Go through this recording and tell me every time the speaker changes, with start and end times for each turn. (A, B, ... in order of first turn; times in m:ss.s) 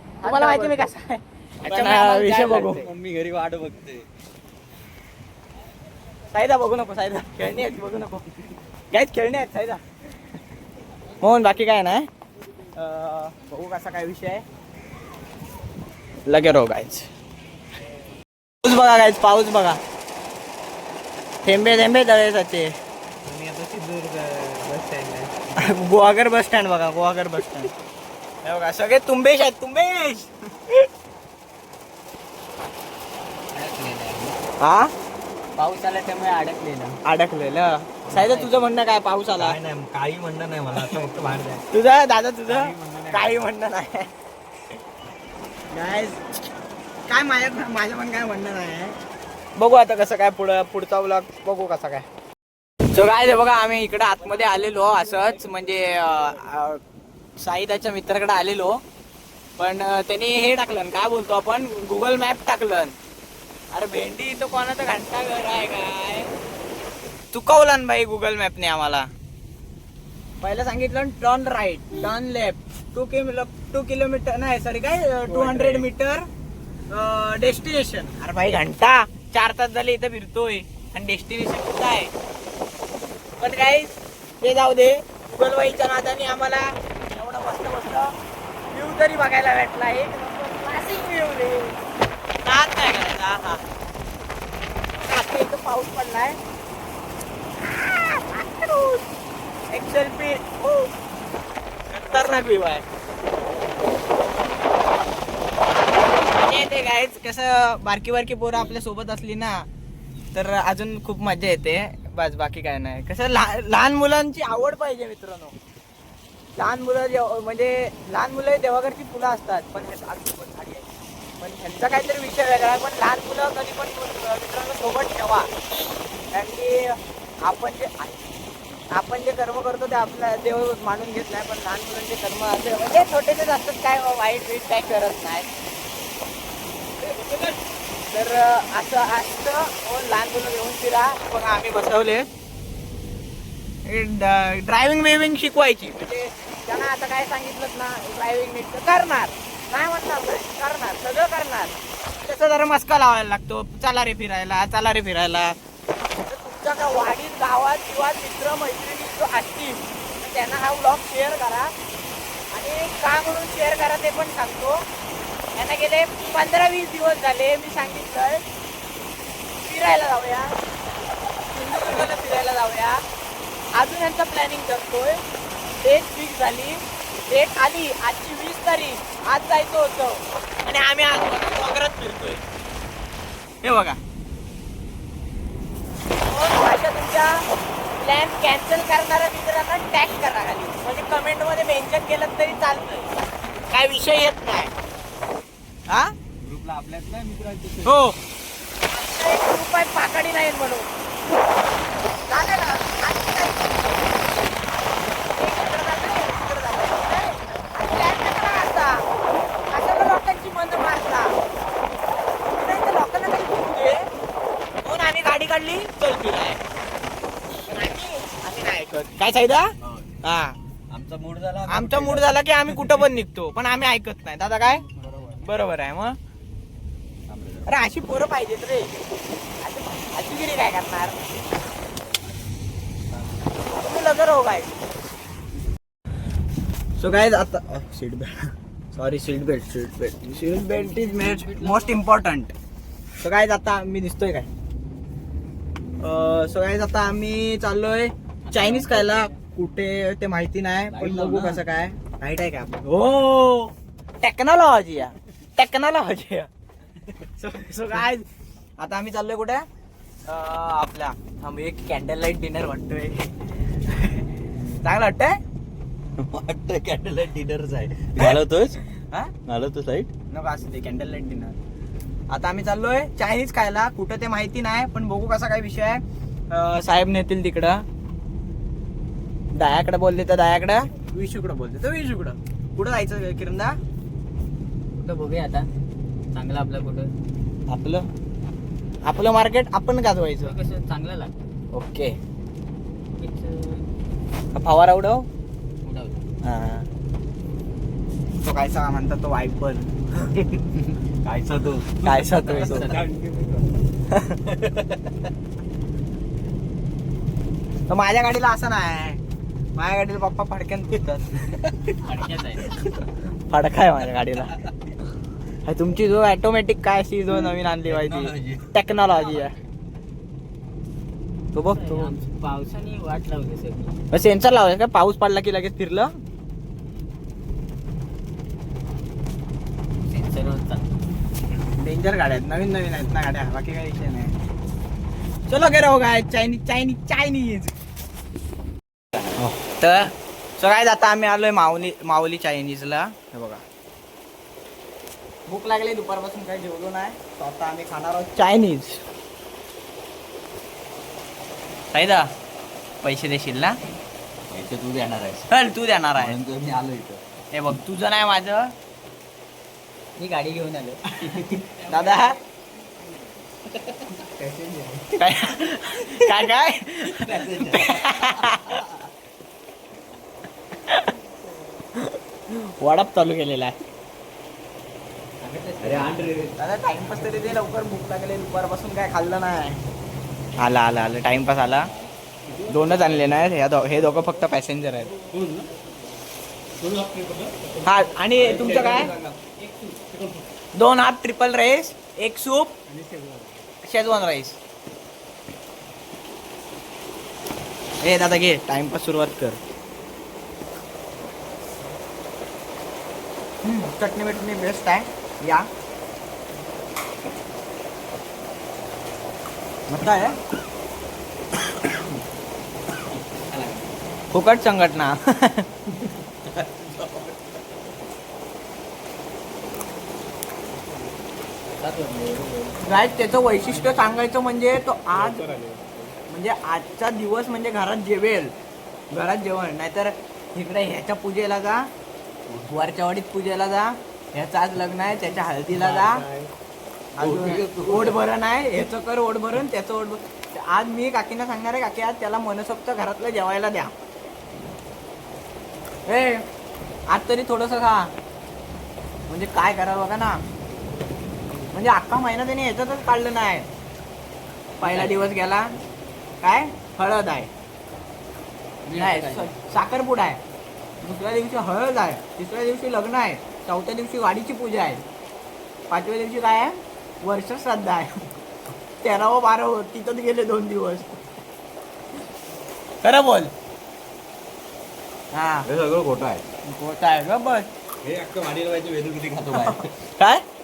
0:00.2-0:00.9 A
0:00.2-0:02.8 B
0:01.7-0:02.9 A
0:02.6-0:04.0 C
0:06.3-0:08.2 B
0:08.9-0:09.8 B
0:11.2-0:12.1 B
0:12.8-0:14.4 B
0:16.3-0:17.1 B
0:18.6-0:19.8 B
0:21.4-0:22.7 B
0:23.3-0:25.4 A
0:25.6-0:27.7 B
0:28.4-0:30.9 B
0:33.5-0:34.4 A
0:34.6-0:34.9 B
0:35.6-0:37.0 A
0:37.0-0:39.6 B
0:38.2-0:38.6 A
0:39.4-0:41.6 C
0:41.7-0:44.1 B
0:42.5-0:43.4 C
0:45.7-0:46.4 B
0:47.1-0:49.0 B
0:49.6-0:52.1 B
0:52.9-0:56.8 B
0:57.4-0:58.8 B
0:59.6-1:03.0 B
1:03.7-1:06.3 B
1:07.3-1:09.1 B
1:10.4-1:16.3 B
1:15.3-1:15.8 A
1:16.9-1:22.1 B
1:23.4-1:28.1 B
1:28.7-1:31.8 B
1:32.4-1:33.6 B
1:35.0-1:36.4 B
1:37.6-1:39.0 B
1:39.7-1:40.9 B
1:41.9-1:42.8 B
1:46.3-1:49.7 B
1:50.3-1:55.6 B
1:56.6-2:00.9 B
2:01.4-2:05.5 B
2:06.3-2:08.3 B
2:08.9-2:15.5 B
2:17.0-2:22.3 B
2:23.8-2:35.6 B
2:36.2-2:41.7 B
2:42.5-2:44.8 B
2:45.6-2:48.4 B
2:49.6-2:50.6 B
2:51.5-2:53.0 B
2:53.8-2:55.2 B
2:55.8-3:02.4 B
3:03.6-3:04.0 B
3:06.2-3:07.5 B
3:08.0-3:13.1 B
3:13.7-3:14.7 B
3:15.9-3:16.1 B
3:16.4-3:17.9 C
3:17.8-3:18.2 B
3:18.8-3:20.9 B
3:22.3-3:24.4 B
3:25.3-3:29.1 B
3:29.7-3:31.4 B
3:32.6-3:34.1 B
3:34.8-3:36.6 B
3:37.7-3:40.6 B
3:39.8-3:40.1 C
3:40.9-3:42.8 C
3:41.7-3:46.2 B
3:47.3-3:47.7 C
3:47.7-3:48.9 B
3:49.6-3:51.2 B
3:53.8-3:54.7 B
3:57.0-4:02.5 B
4:00.4-4:02.0 A
4:03.2-4:04.5 B
4:06.0-4:16.5 B
4:08.5-4:09.4 A
4:10.9-4:11.6 A
4:17.3-4:18.3 B
4:18.8-4:19.6 B
4:20.3-4:23.3 B
4:23.8-4:24.2 B
4:24.8-4:25.4 B
4:26.2-4:28.8 C
4:29.5-4:30.1 C
4:30.3-4:31.6 B
4:32.3-4:37.8 B
4:39.6-4:43.8 B
4:45.0-4:45.7 A
4:46.3-4:47.1 A
4:47.7-4:48.1 B
4:49.1-4:50.6 B
4:50.4-4:51.3 A
4:51.7-4:52.2 B
4:53.2-4:53.9 A
4:54.5-4:55.3 B
4:55.8-4:56.2 A
4:56.4-4:56.9 B
4:58.4-5:00.6 B
5:01.2-5:02.2 C
5:02.0-5:03.0 B
5:02.3-5:03.1 A
5:02.8-5:03.5 C
5:04.1-5:04.5 B
5:07.9-5:09.2 B
5:09.8-5:11.9 B
5:12.0-5:12.7 A
5:13.5-5:14.6 B
5:15.6-5:19.6 B
5:17.9-5:18.7 C
5:21.5-5:22.1 B
5:21.6-5:24.0 A
5:24.1-5:26.1 B
5:30.1-5:30.8 A
5:31.8-5:34.3 B
5:35.5-5:37.7 B
5:39.8-5:43.6 B
5:45.5-5:49.0 B
5:51.9-5:52.3 B
5:53.0-5:53.8 B
5:54.5-5:55.5 C
5:55.5-5:56.4 B
5:56.2-5:57.2 C
5:57.5-5:58.7 B
6:00.2-6:02.1 A
6:01.9-6:02.4 B
6:04.2-6:05.1 A
6:05.2-6:08.8 B
6:07.2-6:08.8 C
6:10.9-6:11.1 B
6:12.0-6:13.8 B
6:15.4-6:16.5 A
6:15.8-6:16.5 C
6:16.6-6:19.8 B
6:20.6-6:21.9 B
6:22.7-6:25.1 B
6:25.3-6:25.7 C
6:26.8-6:27.8 C
6:27.8-6:29.1 B
6:28.4-6:30.4 C
6:30.8-6:32.8 B
6:32.9-6:33.6 C
6:33.8-6:34.6 B
6:38.0-6:39.6 B
6:43.6-6:45.7 B
6:49.9-6:50.4 B
6:53.5-6:53.9 A
6:54.3-6:55.7 B
6:56.4-6:57.4 C
7:01.8-7:02.8 A
7:02.8-7:05.5 B
7:03.7-7:04.0 A
7:06.3-7:08.6 B
7:09.1-7:11.9 B
7:12.6-7:16.3 B
7:15.8-7:16.5 C
7:17.2-7:18.2 C
7:17.2-7:23.9 B
7:26.1-7:26.4 B
7:27.1-7:28.1 B
7:29.3-7:30.4 B
7:31.7-7:33.7 B
7:34.8-7:35.2 A
7:34.8-7:35.7 B
7:36.4-7:37.5 B
7:38.9-7:39.5 A
7:39.0-7:40.4 B
7:41.0-7:45.0 B
7:45.9-7:48.3 B
7:49.0-7:51.2 B
7:53.0-7:53.5 B
7:55.3-7:55.7 B
7:55.7-7:56.5 C
7:56.6-7:57.7 B
7:58.0-7:59.9 C
7:59.6-8:00.4 B